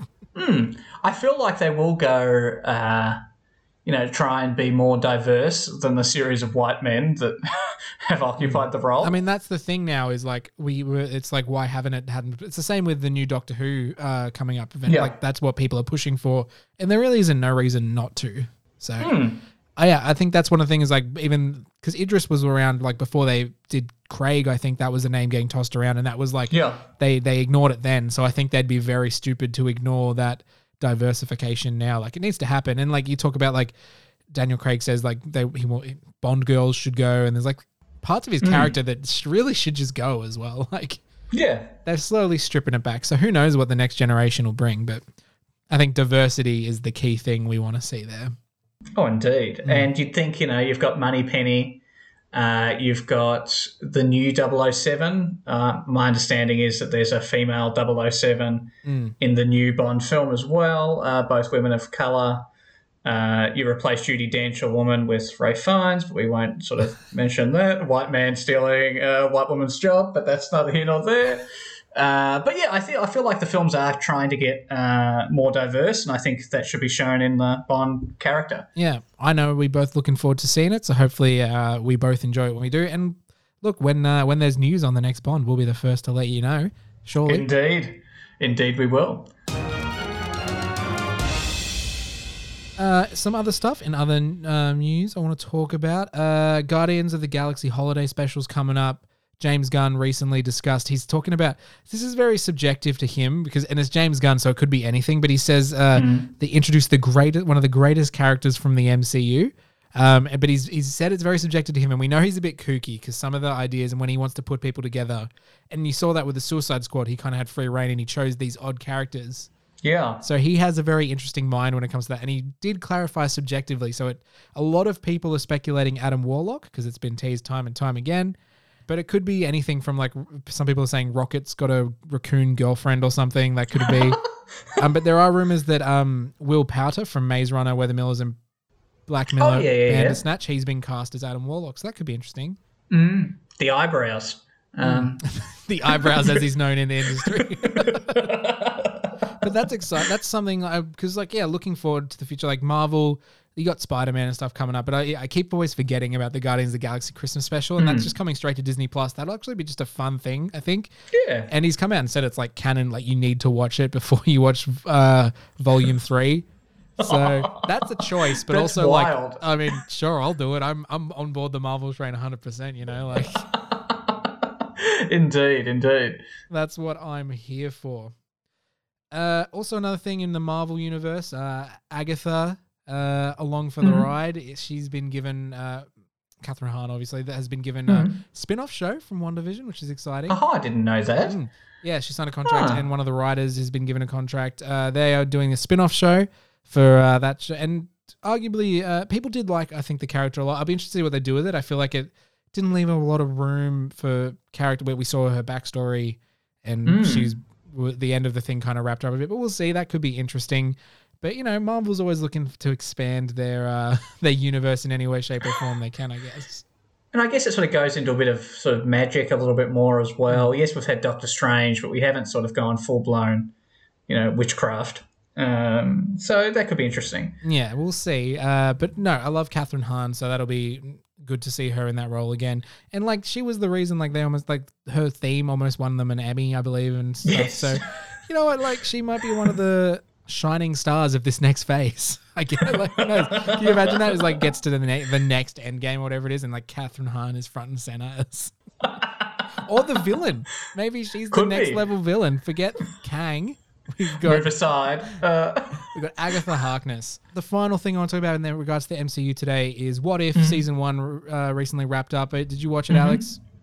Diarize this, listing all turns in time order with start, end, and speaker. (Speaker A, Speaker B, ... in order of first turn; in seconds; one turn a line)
Speaker A: 0.3-3.2
Speaker A: 3.8-9.1
Speaker B: 8.4-19.1
Speaker A: 14.9-15.1
Speaker A: 19.0-19.4
Speaker B: 19.8-33.7
Speaker A: 26.5-26.8
Speaker B: 34.3-41.0
Speaker A: 38.4-38.7
Speaker A: 41.3-41.7
Speaker B: 41.8-45.0
Speaker B: 45.7-48.3
Speaker A: 49.0-51.8
Speaker A: 52.3-62.5
Speaker B: 58.8-59.1
Speaker A: 63.0-78.7
Speaker B: 78.8-87.5
Speaker A: 87.2-89.3
Speaker B: 92.8-119.5
Speaker A: 106.0-106.3
Speaker A: 119.8-120.2
Speaker B: 120.2-128.3
Speaker B: 128.9-134.2
Speaker B: 134.8-138.4
Speaker B: 139.1-142.6
Speaker A: 139.4-140.2
Speaker A: 142.9-145.2
Speaker B: 144.8-148.2
Speaker A: 145.9-146.4
Speaker A: 147.2-149.1
Speaker B: 149.3-160.9
Speaker A: 157.8-158.1
Speaker A: 161.1-161.5
Speaker B: 161.5-166.5
Speaker A: 167.0-167.7
Speaker B: 167.0-173.4
Speaker A: 168.4-169.4
Speaker A: 173.2-176.2
Speaker B: 176.5-178.1
Speaker B: 179.1-185.8
Speaker A: 183.8-184.1
Speaker B: 186.4-190.4
Speaker A: 187.9-188.2
Speaker A: 190.3-191.3
Speaker B: 191.2-216.6
Speaker A: 192.5-192.8
Speaker A: 206.8-207.3
Speaker A: 217.1-223.5
Speaker A: 224.1-227.4
Speaker B: 227.4-248.5
Speaker A: 237.2-237.8
Speaker A: 243.3-244.2
Speaker A: 248.8-249.3
Speaker B: 249.6-254.6
Speaker A: 251.3-251.8
Speaker A: 254.2-255.9
Speaker B: 255.9-263.4
Speaker A: 260.3-260.6
Speaker A: 262.9-263.2